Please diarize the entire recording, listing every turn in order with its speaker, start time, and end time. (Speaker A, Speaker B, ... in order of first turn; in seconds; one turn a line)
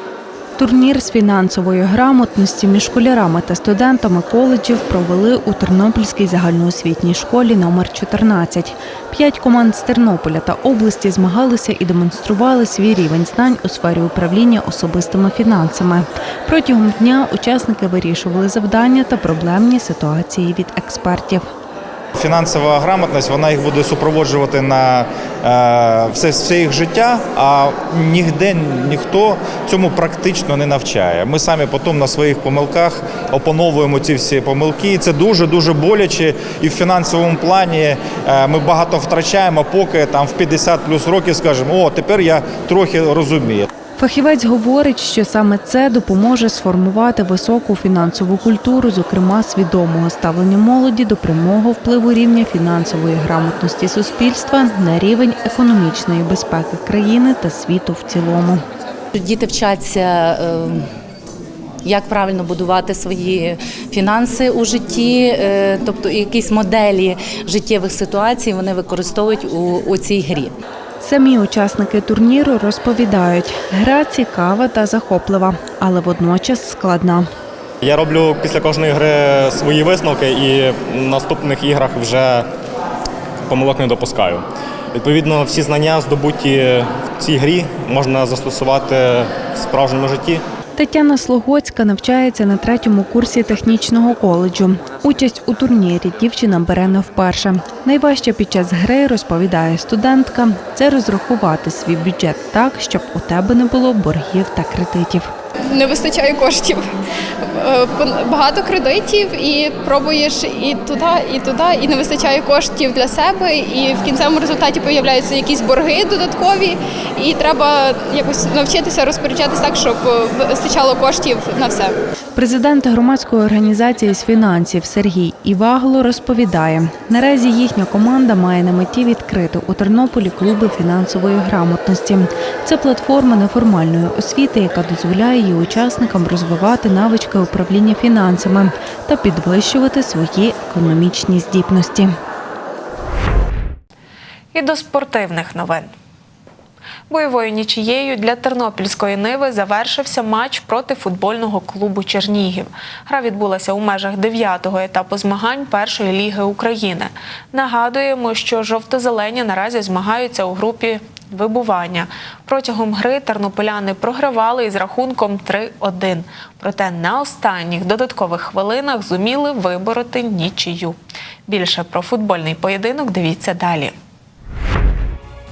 Speaker A: 0.6-21.4
Speaker B: 22.2-43.7
Speaker A: 44.0-58.6
Speaker C: 59.1-60.9
Speaker C: 61.8-70.6
Speaker A: 71.0-77.3
Speaker D: 77.8-82.5
Speaker D: 83.5-84.4
Speaker D: 84.9-90.4
Speaker A: 90.8-105.3
Speaker E: 105.8-106.6
Speaker E: 108.0-120.0
Speaker E: 120.5-121.9
Speaker A: 122.3-142.1
Speaker F: 144.5-145.9
Speaker F: 147.1-171.0
Speaker F: 171.5-173.9